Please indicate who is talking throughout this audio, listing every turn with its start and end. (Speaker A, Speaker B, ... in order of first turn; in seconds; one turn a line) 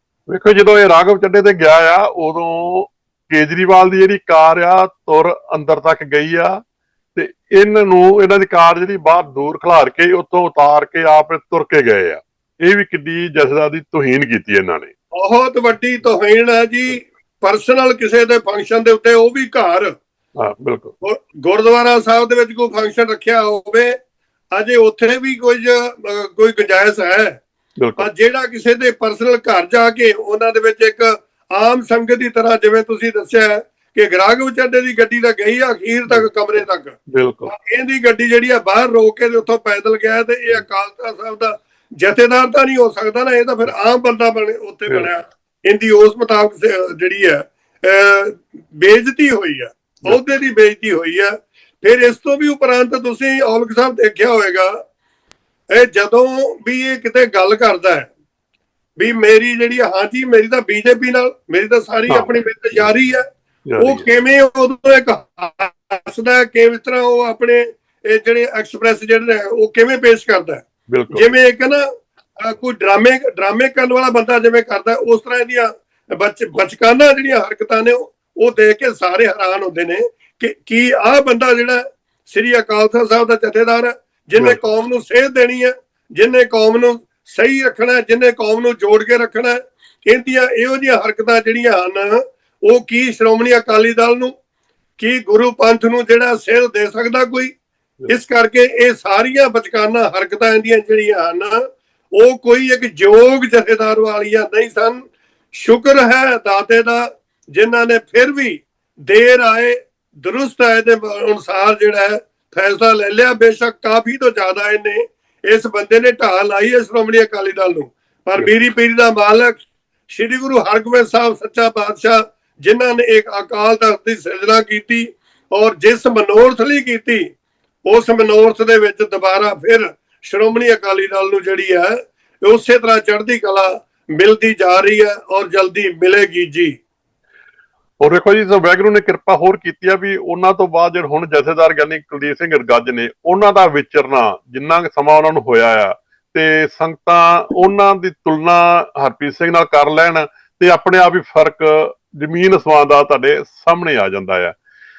Speaker A: 0.3-6.6
Speaker A: 7.1-14.9
Speaker B: 15.2-19.9
Speaker A: 20.4-20.9
Speaker B: 21.0-23.9
Speaker B: 24.5-27.4
Speaker A: 27.8-28.1
Speaker B: 28.0-54.7
Speaker A: 37.1-37.5
Speaker B: 55.7-58.1
Speaker B: 59.0-63.2
Speaker A: 62.1-62.9
Speaker A: 63.7-64.0
Speaker B: 63.8-71.8
Speaker A: 70.9-71.3
Speaker B: 72.4-94.3
Speaker B: 95.0-97.5
Speaker B: 98.1-101.6
Speaker B: 102.1-119.5
Speaker A: 118.4-118.6
Speaker B: 120.1-127.2
Speaker B: 127.9-136.8
Speaker A: 138.0-154.6